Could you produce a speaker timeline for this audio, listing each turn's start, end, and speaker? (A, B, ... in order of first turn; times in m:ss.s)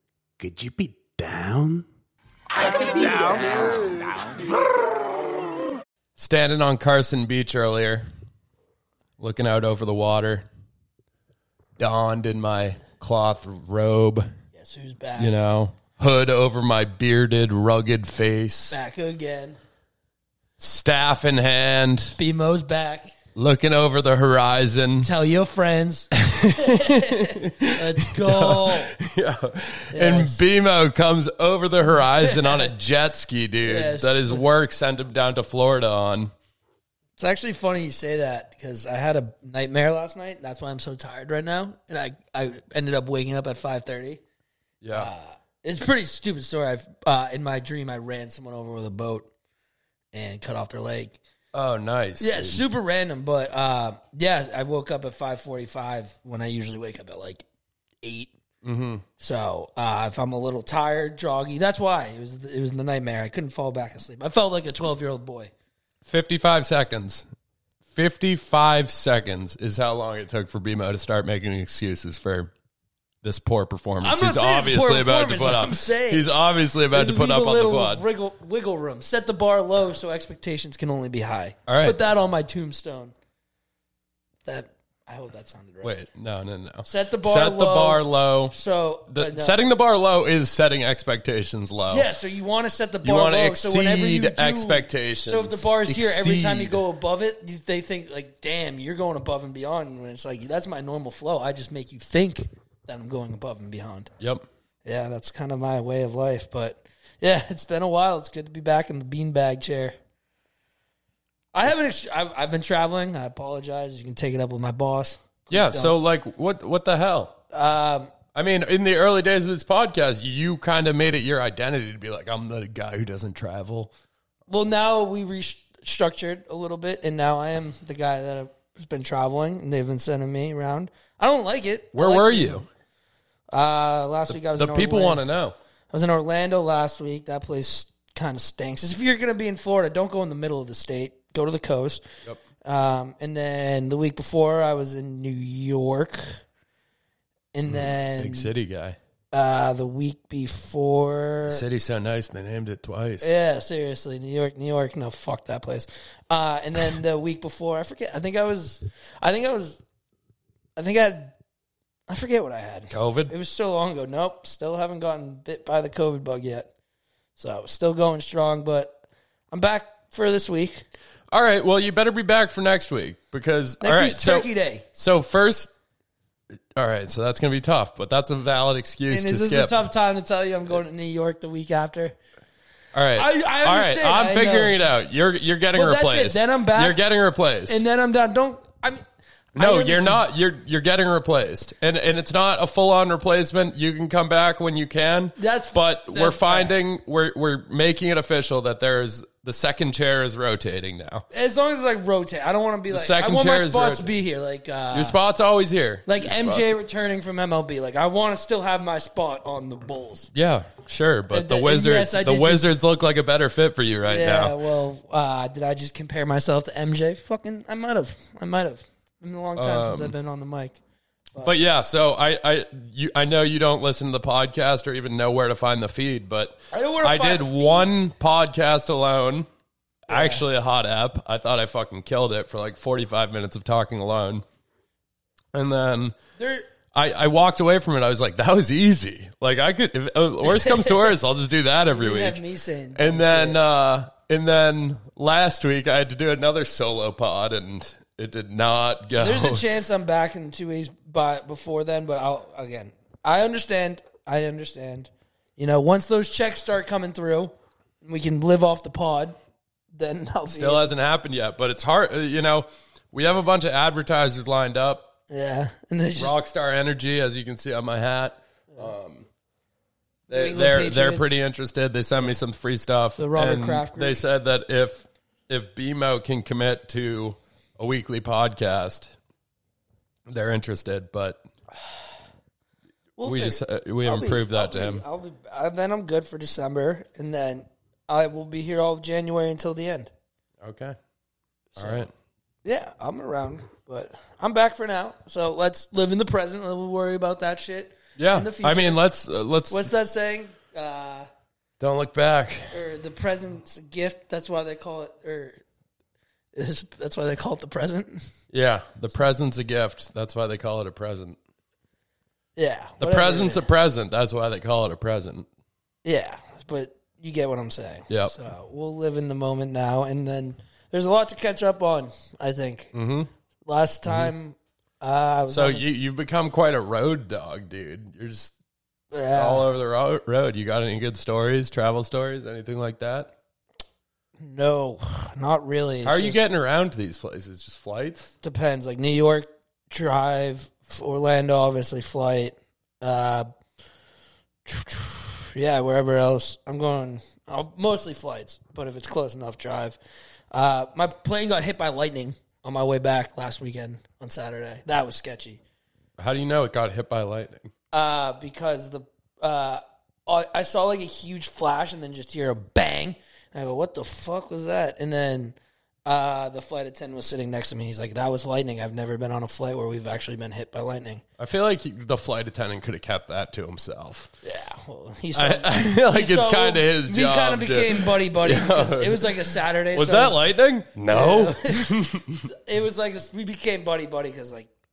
0:00.4-0:01.8 A
0:02.6-0:04.6 A
0:06.2-0:08.0 B
0:09.2-0:10.5 B
0:11.8-0:14.3 B
0:14.5-0:15.4 C
0:15.2-0:18.8 B
0:18.7-0:19.6 C
0:20.6-0:22.2 B
0:22.2-0:23.1 C
0:23.3-0:25.1 B
0:25.0-0:28.9 C
0:26.2-0:36.3 B
0:29.9-0:30.4 C
0:32.2-0:32.7 C
0:33.6-0:34.4 C
0:37.2-0:44.2 C
0:44.8-0:45.1 B
0:44.9-0:49.3 C
0:50.1-0:51.2 C
0:51.5-0:52.6 B
0:52.2-0:57.4 C
0:58.0-0:58.3 C
0:58.6-0:59.0 B
0:59.2-1:05.5 C
1:06.0-1:07.2 B
1:07.9-1:12.5 B
1:13.2-1:18.0 B
1:14.0-1:16.3 C
1:16.9-1:23.1 C
1:21.7-1:22.0 B
1:24.4-1:25.9 C
1:25.8-1:28.5 B
1:26.8-1:29.6 C
1:29.1-1:32.1 B
1:31.9-1:44.1 C
1:33.0-1:36.8 B
1:44.2-1:44.4 B
1:44.8-1:49.9 C
1:51.5-1:55.9 C
1:55.5-1:57.4 B
1:57.5-1:58.1 C
1:58.3-2:03.9 B
2:04.5-2:12.7 C
2:11.9-2:12.6 B
2:13.5-2:15.2 C
2:14.3-2:15.6 B
2:15.9-2:22.0 C
2:22.6-2:26.4 C
2:27.5-2:28.5 C
2:27.7-2:29.0 B
2:29.3-2:31.6 C
2:31.4-2:33.3 B
2:33.2-2:39.8 C
2:40.8-2:41.3 C
2:42.1-2:46.7 C
2:42.9-2:43.3 B
2:47.4-2:50.8 C
2:51.3-2:55.7 B
2:53.8-2:54.8 C
2:56.7-2:59.7 B
2:59.1-3:02.1 C
3:02.9-3:07.8 B
3:03.1-3:04.8 C
3:05.7-3:07.0 C
3:07.7-3:09.0 C
3:09.5-3:10.2 C
3:09.6-3:21.2 B
3:15.4-3:16.7 C
3:21.3-3:25.2 C
3:22.9-3:24.1 B
3:24.9-3:26.8 B
3:26.0-3:30.3 C
3:30.3-3:34.6 B
3:31.3-3:32.7 C
3:34.0-3:40.8 C
3:39.6-3:40.1 B
3:41.4-3:49.5 B
3:46.7-3:47.9 C
3:50.1-3:54.4 B
3:50.1-3:50.4 C
3:55.5-3:56.2 B
3:56.4-3:56.7 C
3:56.9-4:02.4 B
4:00.5-4:01.1 C
4:01.9-4:03.6 C
4:03.0-4:09.6 B
4:09.2-4:19.3 C
4:19.9-4:20.9 C
4:20.5-4:25.1 B
4:25.3-4:26.4 C
4:26.2-4:29.3 B
4:30.3-4:39.1 B
4:30.3-4:31.4 C
4:33.2-4:34.2 C
4:40.3-4:41.4 B
4:43.2-4:50.1 C
4:43.2-4:45.0 B
4:50.6-4:51.0 B
4:51.8-4:52.1 B
4:51.8-4:52.1 C
4:52.6-4:59.0 C
4:58.2-4:59.9 B
4:59.7-5:01.3 C
5:01.8-5:02.7 B
5:02.7-5:05.6 C
5:06.5-5:08.3 C
5:08.5-5:11.4 B
5:12.6-5:13.7 C
5:13.0-5:15.5 B
5:16.0-5:22.9 C
5:22.9-5:23.3 B
5:23.6-5:25.8 C
5:24.1-5:24.3 B
5:25.5-5:28.5 B
5:29.1-5:29.7 C
5:29.3-5:33.3 B
5:34.4-5:36.4 C
5:36.0-5:38.3 B
5:38.4-5:43.5 C
5:44.6-5:50.0 C
5:50.5-5:55.6 C
5:56.2-5:57.7 B
5:57.9-6:11.2 C
6:11.4-6:14.3 B
6:14.4-6:20.4 C
6:15.3-6:22.5 B
6:21.1-6:24.7 C